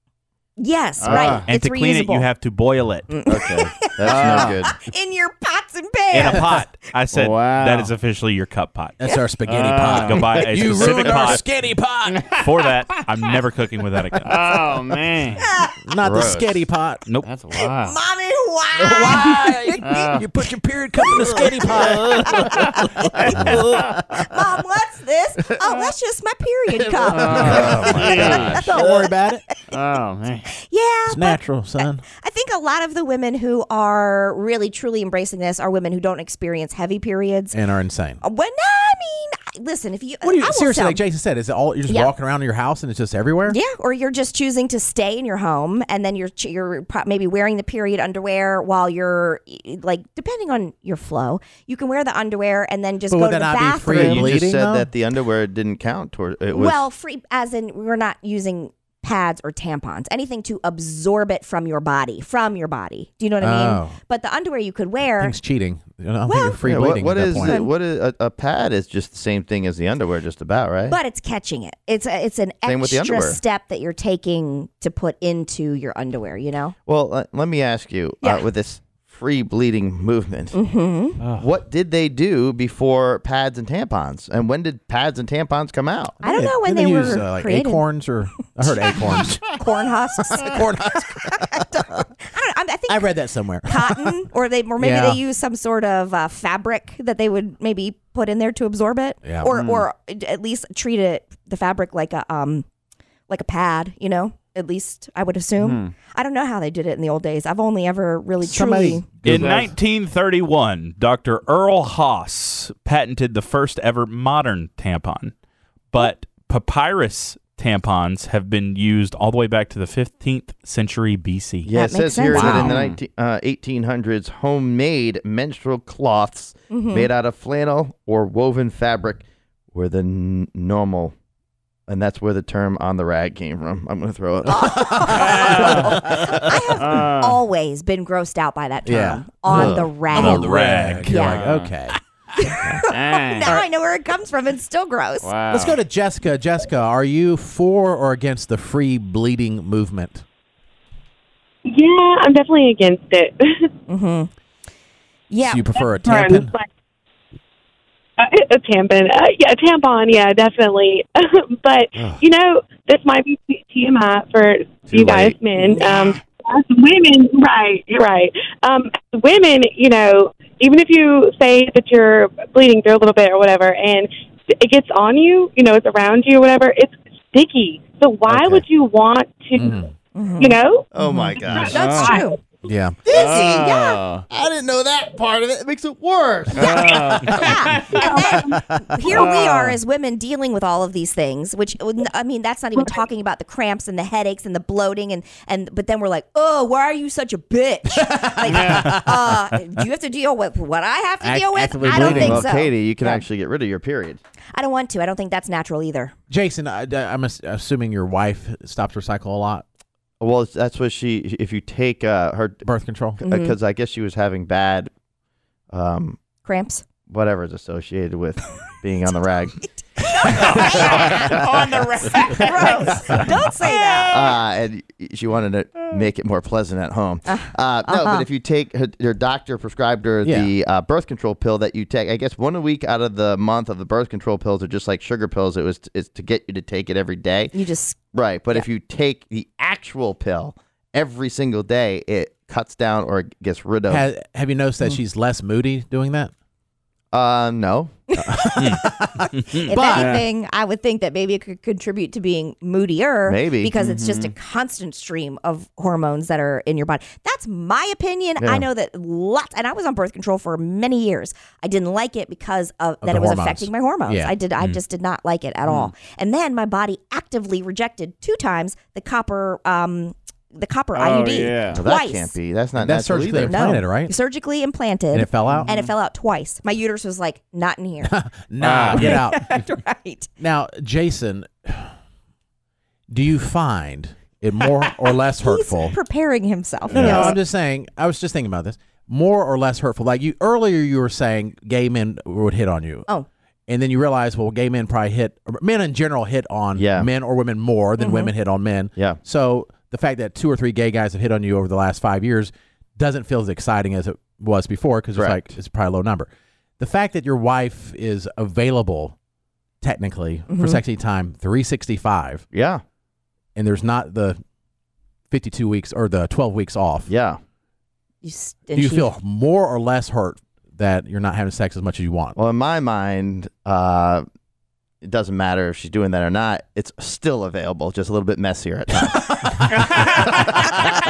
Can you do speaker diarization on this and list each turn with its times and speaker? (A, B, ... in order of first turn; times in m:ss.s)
0:00.6-0:02.3 A
0:01.0-0:01.5 B
0:01.1-0:01.4 C
0:01.3-0:03.1 D
0:03.1-0:06.6 A
0:03.3-0:04.7 C
0:04.0-0:04.6 B
0:06.1-0:09.0 D
0:07.1-0:07.9 B
0:09.0-0:12.3 E
0:09.5-0:10.3 B
0:09.8-0:11.4 D
0:12.1-0:13.0 B
0:12.3-0:14.3 D
0:14.2-0:14.6 E
0:14.2-0:15.5 B
0:15.4-0:15.8 A
0:15.8-0:17.1 E
0:16.0-0:16.6 C
0:17.2-0:18.0 B
0:17.5-0:20.0 A
0:18.8-0:23.6 E
0:19.8-0:20.2 B
0:21.0-0:29.1 A
0:21.8-0:24.0 B
0:27.1-0:28.9 B
0:27.4-0:28.5 C
0:27.6-0:29.4 E
0:27.6-0:28.6 D
0:29.7-0:30.5 B
0:30.6-0:37.6 A
0:31.1-0:32.0 E
0:37.5-0:38.2 E
0:38.2-0:41.0 A
0:40.2-0:43.6 E
0:43.5-0:54.3 A
0:53.1-0:54.9 E
0:53.9-0:56.8 C
0:56.5-1:05.4 A
1:03.4-1:04.0 E
1:05.2-1:07.6 E
1:06.3-1:06.6 A
1:06.6-1:11.0 C
1:07.4-1:07.7 A
1:10.9-1:16.8 A
1:12.6-1:13.4 C
1:16.9-1:20.6 C
1:18.2-1:18.5 A
1:20.5-1:21.2 A
1:21.4-1:26.1 C
1:26.2-1:29.5 E
1:26.2-1:27.8 A
1:28.7-1:42.7 A
1:30.3-1:31.6 E
1:32.9-1:34.2 E
1:34.8-1:35.2 E
1:39.2-1:39.6 E
1:39.5-1:39.8 B
1:43.3-1:49.1 A
1:45.6-1:45.9 B
1:48.4-1:49.6 E
1:49.2-1:55.3 D
1:49.2-1:49.7 B
1:55.9-2:01.7 D
2:01.6-2:11.1 C
2:01.8-2:02.8 A
2:02.3-2:02.7 E
2:02.7-2:03.0 B
2:06.7-2:07.1 A
2:11.9-2:15.6 C
2:14.4-2:21.4 A
2:15.2-2:15.8 B
2:16.8-2:17.4 B
2:18.9-2:19.8 E
2:19.6-2:21.4 D
2:20.4-2:22.0 E
2:21.2-2:21.8 B
2:22.4-2:25.3 A
2:22.9-2:23.6 B
2:25.2-2:25.8 B
2:25.5-2:30.2 E
2:31.7-2:33.7 F
2:33.9-2:34.3 A
2:35.3-2:35.6 A
2:35.4-2:36.6 E
2:35.8-2:36.7 F
2:38.2-2:54.1 F
2:44.9-2:45.4 C
2:45.6-2:46.2 A
2:54.6-2:59.8 F
2:59.6-2:59.9 E
3:00.1-3:02.4 A
3:00.4-3:00.9 F
3:00.9-3:01.8 C
3:01.5-3:02.4 F
3:01.6-3:02.2 B
3:02.6-3:03.0 E
3:03.1-3:07.2 C
3:03.1-3:04.2 B
3:06.6-3:07.9 B
3:06.6-3:23.2 A
3:07.9-3:08.6 F
3:08.5-3:09.1 E
3:09.1-3:09.8 B
3:18.0-3:19.0 E
3:18.5-3:18.9 B
3:21.2-3:22.4 E
3:21.9-3:24.2 C
3:24.5-3:26.1 A
3:26.3-3:29.6 E
3:30.2-3:32.6 C
3:32.6-3:33.2 E
3:33.2-3:33.6 A
3:33.2-3:34.9 C
3:35.7-3:36.2 C
3:36.4-3:36.8 A
3:37.1-3:39.6 C
3:40.0-3:41.3 A
3:40.4-3:41.2 C
3:40.4-3:43.1 B
3:42.4-3:44.4 A
3:44.1-3:57.6 C
3:47.2-3:48.3 A
3:50.2-3:50.5 E
3:57.5-3:58.0 A
3:58.1-4:04.1 C
4:03.9-4:06.3 E
4:07.1-4:07.9 C
4:08.2-4:09.2 E
4:08.2-4:32.4 A
4:09.3-4:09.7 D
4:09.7-4:10.2 E
4:09.9-4:10.2 B
4:13.3-4:13.7 C
4:13.8-4:14.3 B
4:18.4-4:18.7 C
4:23.0-4:24.4 E
4:25.7-4:25.9 B
4:30.9-4:31.8 B
4:31.7-4:33.6 C
4:32.8-4:34.1 E
4:33.4-4:38.1 A
4:35.1-4:35.7 E
4:35.4-4:35.9 B
4:38.0-4:39.6 E
4:38.6-4:39.1 B
4:38.9-4:40.3 A
4:40.4-4:41.9 E
4:43.1-4:46.0 E
4:45.4-4:47.4 A
4:46.9-4:53.1 E
4:47.0-4:47.4 B
4:53.7-5:09.2 E
4:56.8-4:57.1 C
4:58.0-4:58.3 A
5:05.2-5:05.5 C
5:09.8-5:12.4 E
5:10.5-5:10.8 A
5:12.5-5:12.8 C
5:13.6-5:14.4 E
5:15.3-5:17.1 E
5:17.1-5:17.4 C
5:18.2-5:19.1 A
5:18.7-5:22.4 E
5:22.4-5:24.2 C
5:25.0-5:29.4 C
5:29.7-5:30.4 B